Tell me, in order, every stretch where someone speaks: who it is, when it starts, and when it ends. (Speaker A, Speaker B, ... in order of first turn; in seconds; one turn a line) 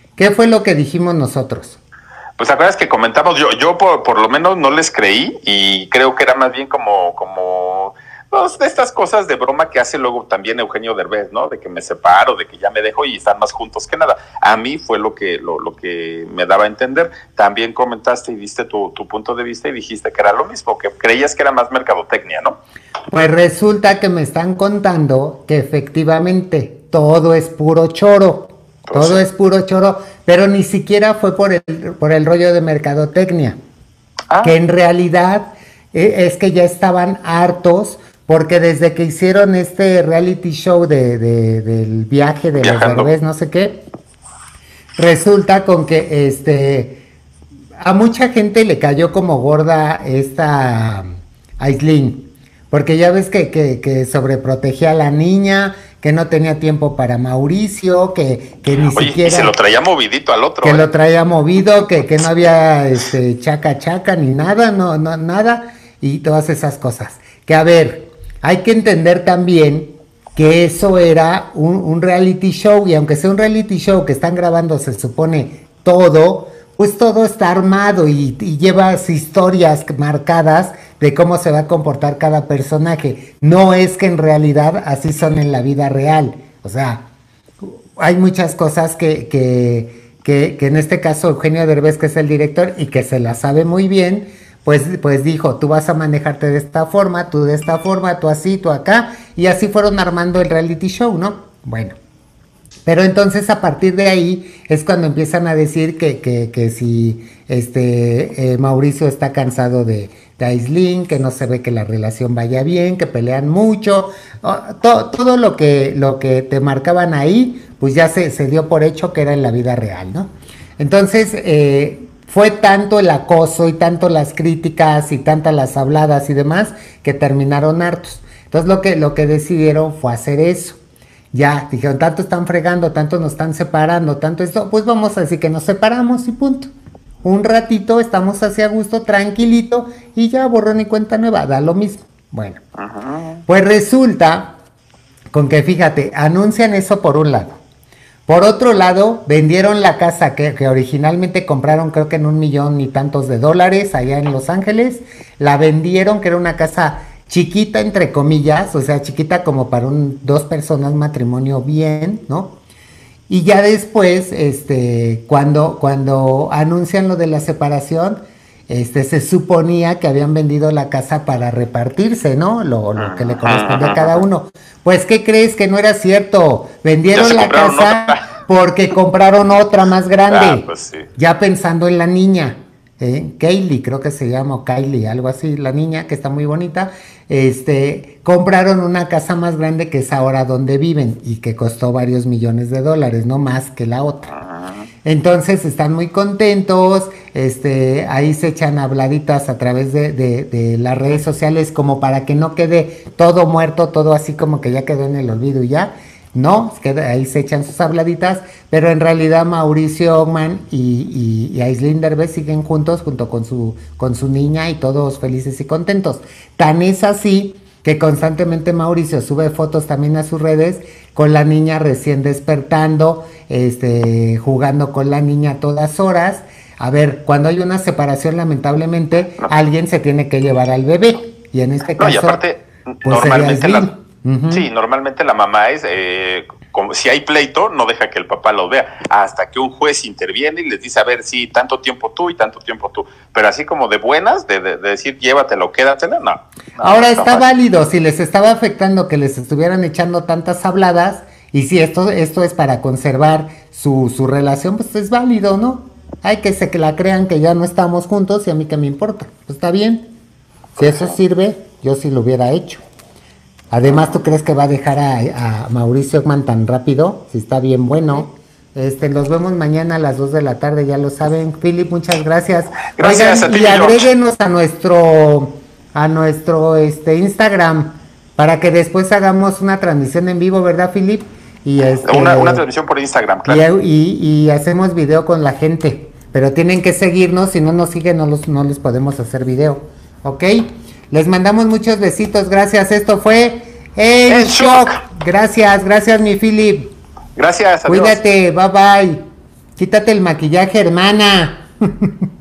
Speaker A: 0.2-1.8
Speaker B: 2.4-22.6
Speaker A: 23.1-33.6
Speaker B: 28.9-29.2
Speaker B: 34.3-34.5
Speaker A: 34.4-43.8
Speaker B: 42.5-43.1
Speaker A: 45.0-47.0
Speaker A: 47.8-51.1
Speaker A: 51.6-59.5
Speaker B: 58.9-60.9
Speaker A: 60.6-87.0
Speaker A: 88.0-102.0
Speaker A: 102.8-130.8
Speaker A: 131.3-136.7
Speaker A: 137.2-142.6
Speaker B: 142.8-143.4
Speaker A: 143.5-144.6
Speaker A: 145.3-147.6
Speaker A: 148.3-162.6
Speaker A: 163.3-194.3
Speaker B: 172.9-174.2
Speaker B: 177.1-178.2
Speaker B: 180.3-181.1
Speaker B: 194.3-194.9
Speaker A: 195.0-232.4
Speaker B: 232.0-233.9
Speaker A: 233.0-234.7
Speaker B: 234.5-247.4
Speaker A: 246.8-260.1
Speaker A: 260.8-262.8
Speaker B: 260.8-261.1
Speaker A: 263.7-282.6
Speaker B: 272.9-274.1
Speaker B: 282.0-283.6
Speaker A: 283.4-296.9
Speaker B: 294.3-295.0
Speaker B: 297.4-298.2
Speaker A: 297.9-299.2
Speaker A: 299.8-302.1